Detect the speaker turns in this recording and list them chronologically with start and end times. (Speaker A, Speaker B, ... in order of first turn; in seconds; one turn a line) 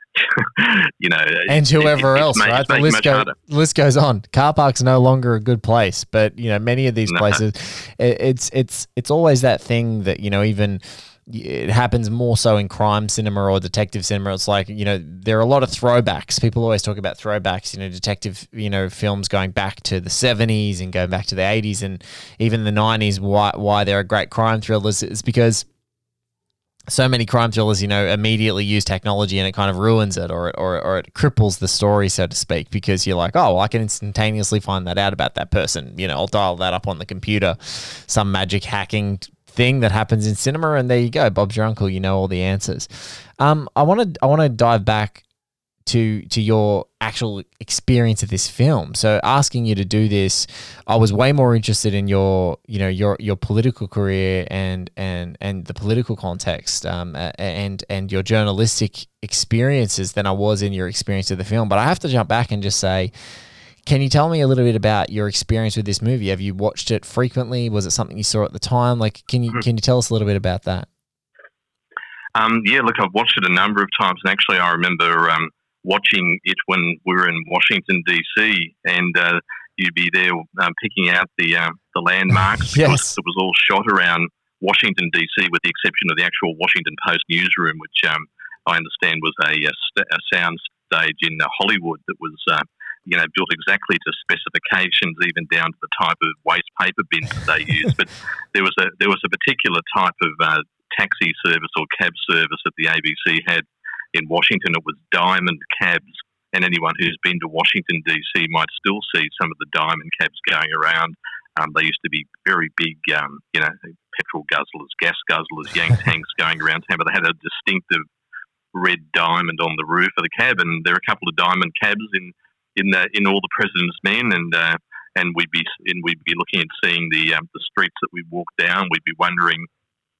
Speaker A: 0.1-3.3
Speaker B: 1.5-25.6
Speaker A: 7.1-7.4
Speaker B: 26.9-45.2
Speaker B: 45.9-63.1
Speaker B: 63.9-70.9
Speaker A: 72.3-118.0
Speaker B: 82.6-83.2
Speaker A: 118.7-129.7